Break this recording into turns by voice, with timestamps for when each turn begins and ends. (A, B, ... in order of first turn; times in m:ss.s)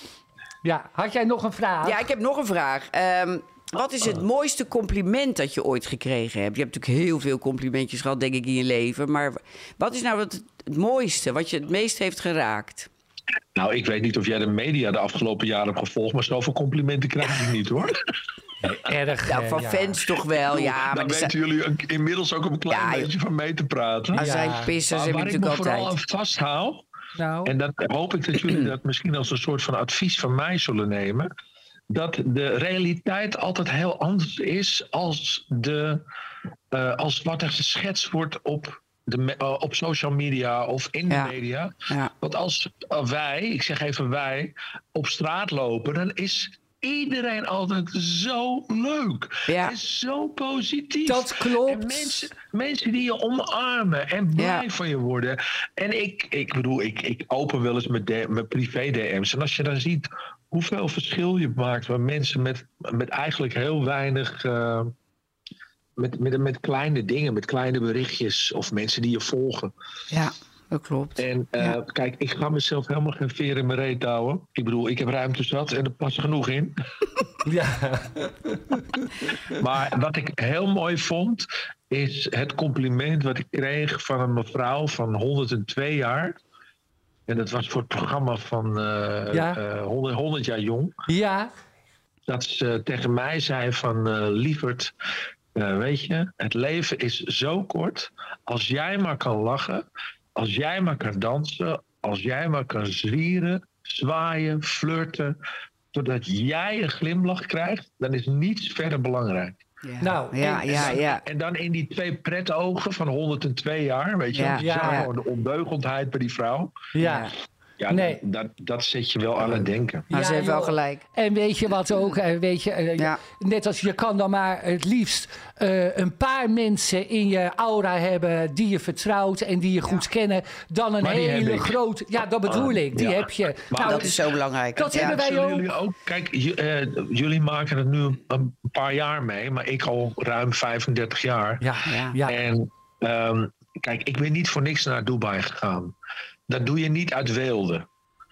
0:00.6-0:02.1 A
0:01.8-0:12.9 B
0:13.6-0:18.0 C
0:18.6-0:20.0 A
0:19.3-0:21.3 B
0:20.4-0:24.3 C
0:22.7-0:23.1 B
0:24.1-0:26.0 B
0:24.2-0:24.7 A
0:24.9-0:26.8 C
0:27.2-0:27.5 A
0:27.4-0:31.3 C
0:28.4-0:28.7 B
0:31.9-0:36.0 C
0:36.7-1:04.9 C
0:41.1-0:41.3 B
0:49.5-0:49.8 B
0:51.1-0:52.2 A
0:54.4-0:54.6 B
1:06.0-1:09.7 C
1:10.1-1:11.8 B
1:11.2-1:16.8 C
1:17.4-1:19.1 A
1:19.5-1:26.4 C
1:27.3-1:30.9 C
1:29.3-1:29.6 A
1:31.1-1:31.5 A
1:32.3-1:34.9 C
1:35.6-1:45.4 C
1:45.9-1:49.6 C
1:49.8-1:51.2 B
1:50.0-1:51.0 A
1:50.7-1:56.8 C
1:54.3-1:55.1 B
1:54.6-1:55.1 A
1:56.9-1:57.3 A
1:57.0-1:57.3 B
1:57.8-2:00.1 C
1:57.9-1:58.2 A
1:59.4-2:01.0 B
2:00.1-2:14.2 A
2:11.0-2:11.8 C
2:12.4-2:14.1 C
2:13.8-2:15.2 B
2:14.8-2:15.8 A
2:14.9-2:21.6 C
2:21.6-2:22.4 A
2:21.9-2:22.2 B
2:22.2-2:26.0 C
2:26.5-2:27.9 C